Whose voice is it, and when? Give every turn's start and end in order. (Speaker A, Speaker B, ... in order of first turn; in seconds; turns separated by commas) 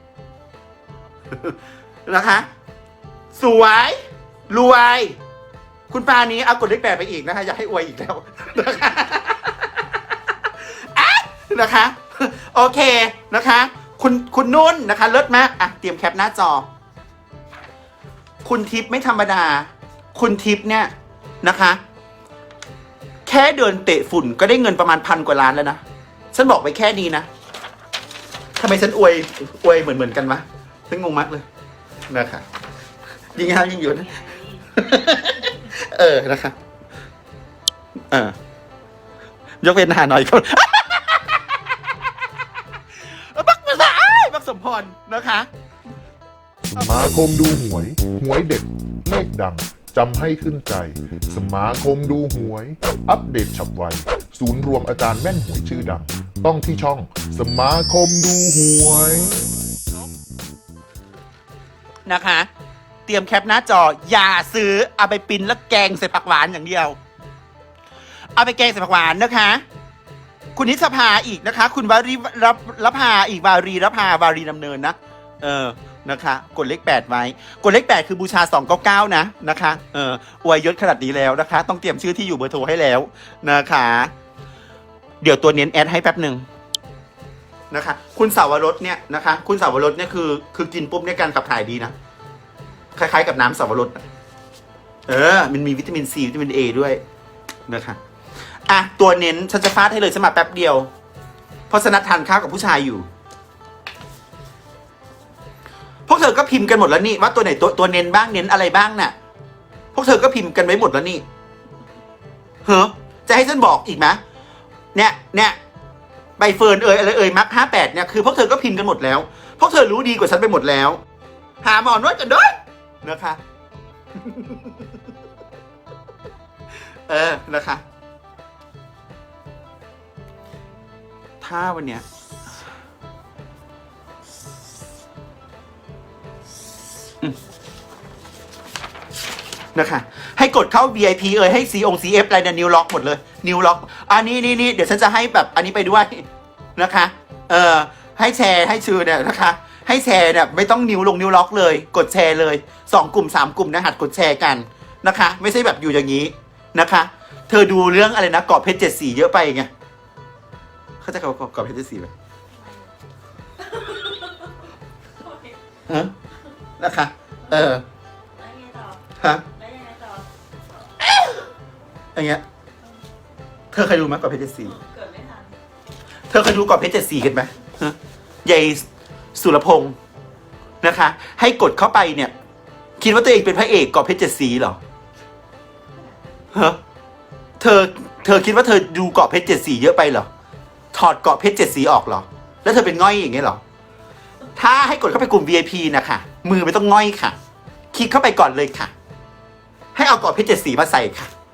Speaker A: 1.3-2.5, Speaker A: 3.4-4.0, Speaker A: 4.5-5.2, Speaker A: 5.9-16.7, Speaker A: 18.4-21.8, Speaker A: 23.3-25.8, Speaker A: 26.3-27.3, Speaker A: 28.6-31.4, Speaker A: 32.1-32.5, Speaker A: 33.3-36.5, Speaker A: 38.1-38.4, Speaker A: 39.6-41.4, Speaker A: 43.0-45.5, Speaker B: 46.7-59.5, Speaker A: 62.1-62.5, Speaker A: 63.1-67.0, Speaker A: 68.4-69.6, Speaker A: 70.5-84.1, Speaker A: 85.2-86.5, Speaker A: 87.7-91.9, Speaker A: 93.0-94.0, Speaker A: 95.1-97.0, Speaker A: 97.7-98.0, Speaker A: 98.7-100.9, Speaker A: 101.7-103.1, Speaker A: 106.1-109.1, Speaker A: 109.9-111.2, Speaker A: 112.7-114.2, Speaker A: 115.0-115.6, Speaker A: 116.4-121.0, Speaker A: 121.6-123.4, Speaker A: 124.2-125.0, Speaker A: 127.1-127.8, Speaker A: 131.4-132.1, Speaker A: 139.8-146.2, Speaker A: 146.8-159.7, Speaker A: 161.0-162.1, Speaker C: 163.7-164.5, Speaker C: 165.2-165.6, Speaker A: 165.9-166.1, Speaker A: 166.8-167.8, Speaker C: 168.4-169.0, Speaker A: 169.2-169.5, Speaker C: 169.6-170.2, Speaker A: 172.2-172.4, Speaker A: 173.7-174.8, Speaker C: 174.8-175.5, Speaker A: 176.3-178.8, Speaker A: 179.3-180.0, Speaker A: 180.8-182.3, Speaker A: 183.0-184.8, Speaker A: 186.5-186.8, Speaker A: 187.6-190.3, Speaker A: 190.9-193.6, Speaker A: 194.6-197.4, Speaker A: 197.9-198.9, Speaker A: 199.9-201.3